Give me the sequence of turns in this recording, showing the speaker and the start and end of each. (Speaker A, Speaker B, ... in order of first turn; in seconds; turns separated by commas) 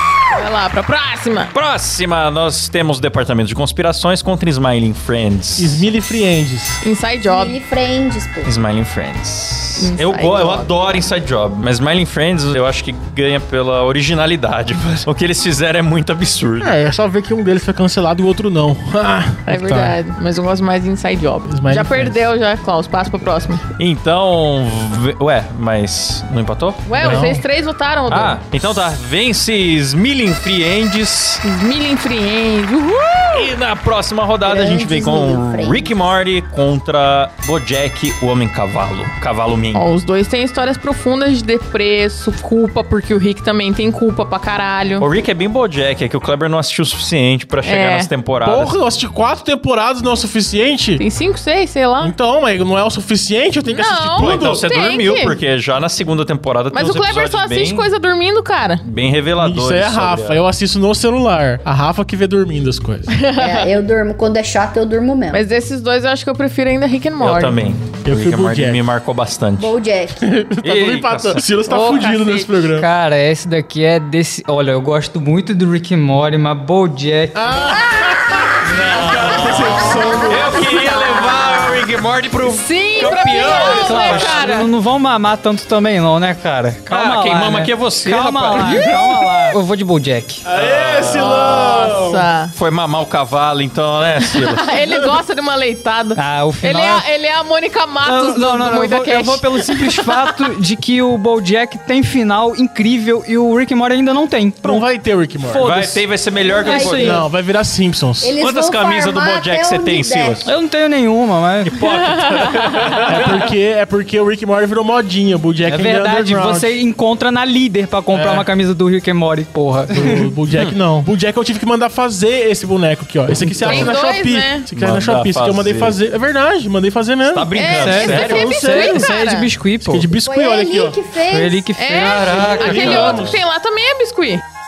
Speaker A: 0.3-1.5, Speaker B: 1.5-5.9, Speaker C: 5.6-6.8, Speaker A: 6.8-7.6, Speaker D: 7.2-8.5, Speaker B: 8.4-16.7, Speaker A: 9.8-10.7, Speaker C: 16.6-20.0, Speaker A: 19.5-23.6, Speaker C: 21.5-22.2, Speaker B: 23.8-27.2, Speaker A: 26.9-28.4, Speaker C: 27.0-27.4, Speaker B: 28.1-31.4, Speaker A: 31.4-33.5, Speaker B: 33.3-39.9, Speaker D: 34.5-35.9, Speaker A: 39.7-45.1, Speaker B: 45.0-48.8, Speaker A: 47.6-48.1, Speaker C: 48.4-51.0, Speaker A: 51.0-52.1, Speaker C: 52.0-54.6, Speaker A: 53.7-55.4, Speaker B: 54.2-57.9, Speaker A: 56.7-58.8, Speaker B: 58.8-60.4, Speaker C: 59.4-63.1, Speaker A: 63.1-63.7, Speaker D: 63.4-65.5, Speaker A: 65.3-67.6, Speaker B: 67.2-69.7, Speaker C: 68.0-68.8, Speaker D: 69.6-70.2, Speaker C: 70.2-72.9, Speaker B: 70.6-71.4, Speaker A: 71.7-72.7, Speaker E: 72.8-77.8, Speaker C: 77.3-80.9, Speaker D: 77.7-78.9, Speaker B: 78.7-84.5, Speaker D: 79.7-81.1, Speaker A: 82.4-84.7, Speaker E: 83.5-90.4, Speaker B: 86.9-89.2, Speaker A: 88.6-88.9, Speaker C: 90.4-92.2, Speaker B: 90.5-94.8, Speaker A: 91.9-92.5, Speaker A: 94.3-100.3, Speaker E: 96.2-97.1, Speaker E: 98.0-104.9, Speaker C: 104.6-105.8, Speaker E: 105.5-106.0, Speaker B: 105.5-107.2, Speaker D: 106.4-107.3, Speaker C: 106.8-108.3, Speaker D: 108.2-110.5, Speaker B: 108.4-110.5, Speaker E: 110.4-111.8, Speaker B: 111.7-113.5, Speaker A: 111.8-113.0, Speaker C: 113.1-116.8, Speaker E: 115.7-120.3, Speaker C: 118.1-118.5, Speaker C: 119.9-129.1, Speaker A: 123.6-124.7, Speaker B: 124.8-126.0, Speaker B: 127.3-128.5, Speaker A: 127.5-129.5, Speaker E: 127.8-130.1, Speaker C: 129.8-131.0, Speaker D: 130.2-131.7, Speaker E: 131.3-133.2, Speaker A: 131.8-134.4, Speaker B: 132.0-133.4, Speaker C: 132.4-133.4